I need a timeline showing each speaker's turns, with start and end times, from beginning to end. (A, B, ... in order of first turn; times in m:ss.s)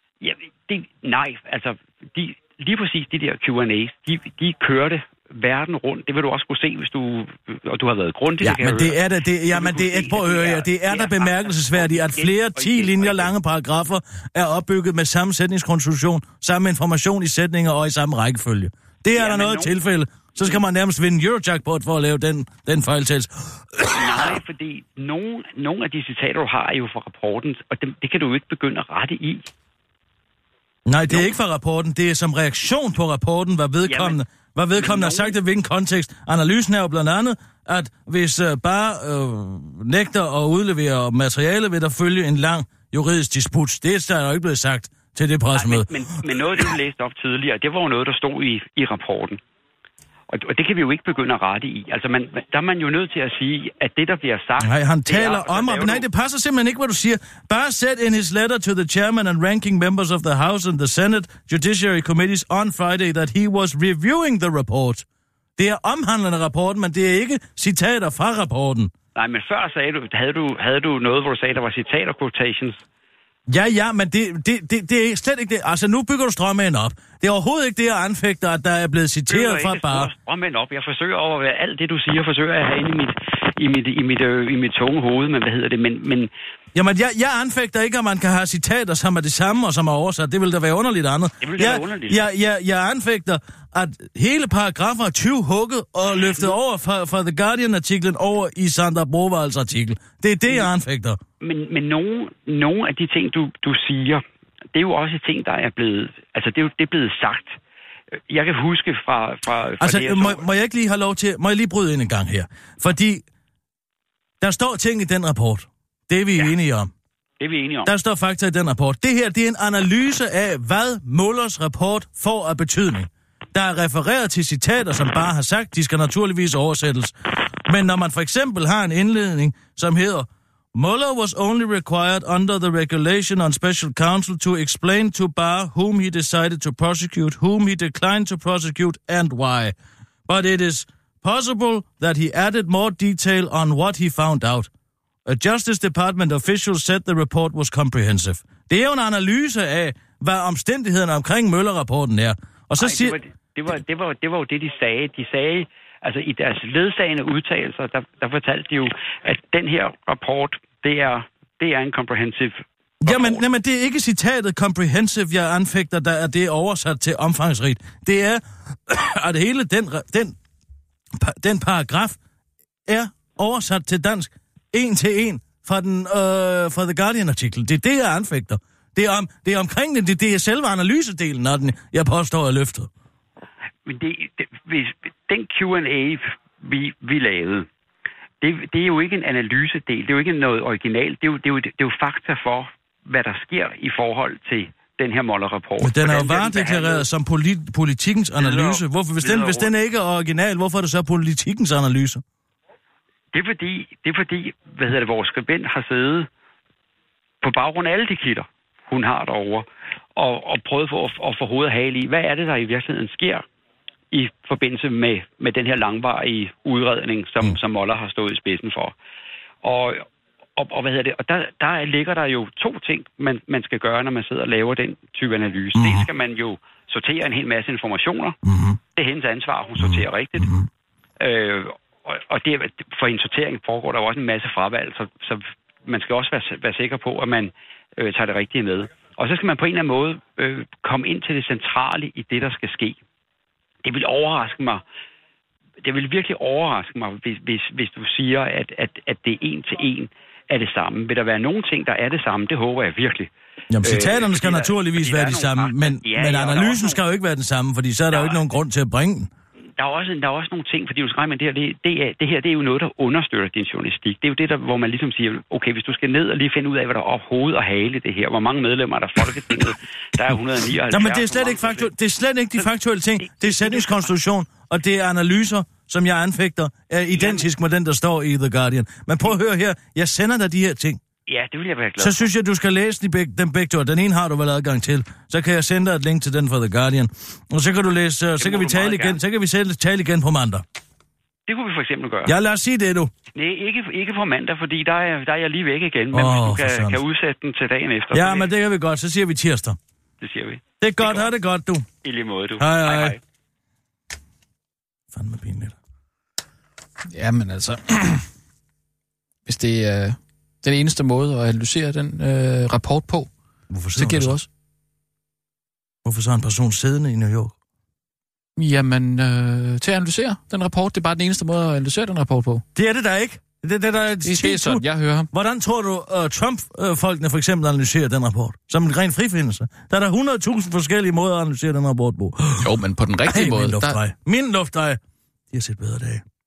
0:00.2-0:09.0 A
0:08.4-0:24.4 B
0:09.5-0:13.3 A
0:19.1-0:19.8 A
0:23.9-0:29.5 A
0:30.9-0:46.0 B
0:33.8-0:34.2 A
0:34.7-0:35.4 A
0:45.5-0:49.4 A
0:50.3-0:56.0 A
0:54.6-1:05.0 B
1:05.6-1:08.9 B
1:09.2-1:12.8 A
1:13.5-1:20.1 B
1:19.3-1:26.3 A
1:26.7-1:41.2 B
1:31.4-1:32.3 A
1:36.2-1:36.5 A
1:41.4-1:44.2 A
1:44.7-1:47.6 A
1:48.3-1:50.4 A
1:49.8-1:53.2 B
1:54.4-1:56.9 B
1:57.4-1:57.9 A
1:57.9-2:07.1 B
2:07.7-2:19.7 B
2:20.3-2:24.7 B
2:25.3-2:33.2 B
2:32.8-2:43.4 A
2:43.0-2:50.4 B
2:51.1-2:52.2 B
2:52.9-3:02.9 B
3:03.9-3:07.7 A
3:08.4-3:17.0 A
3:15.8-3:22.2 B
3:18.4-3:19.7 A
3:23.3-3:26.3 A
3:27.4-3:33.4 A
3:34.1-3:39.0 A
3:39.6-3:40.0 A
3:40.6-3:48.4 A
3:45.8-3:46.1 B
3:48.4-3:48.8 B
3:49.0-3:50.5 A
3:49.8-3:50.7 B
3:51.2-4:03.0 A
4:03.8-4:04.8 A
4:05.8-4:13.3 A
4:13.7-4:19.3 B
4:13.8-4:17.0 A
4:18.1-4:18.4 A
4:19.8-4:31.9 A
4:30.9-4:41.0 B
4:33.2-4:34.1 A
4:37.1-4:37.4 A
4:41.3-4:42.3 A
4:42.0-4:50.6 B
4:48.4-4:49.2 A
4:51.5-4:52.3 A
4:52.3-4:53.1 B
4:53.3-4:58.5 A
4:56.1-4:57.0 B
4:58.1-4:59.8 B
5:00.2-5:01.3 A
5:00.8-5:01.9 B
5:02.0-5:03.2 A
5:02.6-5:03.2 B
5:05.1-5:05.8 B
5:07.1-5:08.3 C
5:09.4-5:13.3 C
5:13.7-5:14.4 B
5:14.0-5:14.5 C
5:16.0-5:17.5 B
5:18.6-5:22.6 C
5:22.7-5:32.8 B
5:24.2-5:25.3 C
5:32.6-5:34.0 C
5:33.3-5:35.0 B
5:35.5-5:36.2 B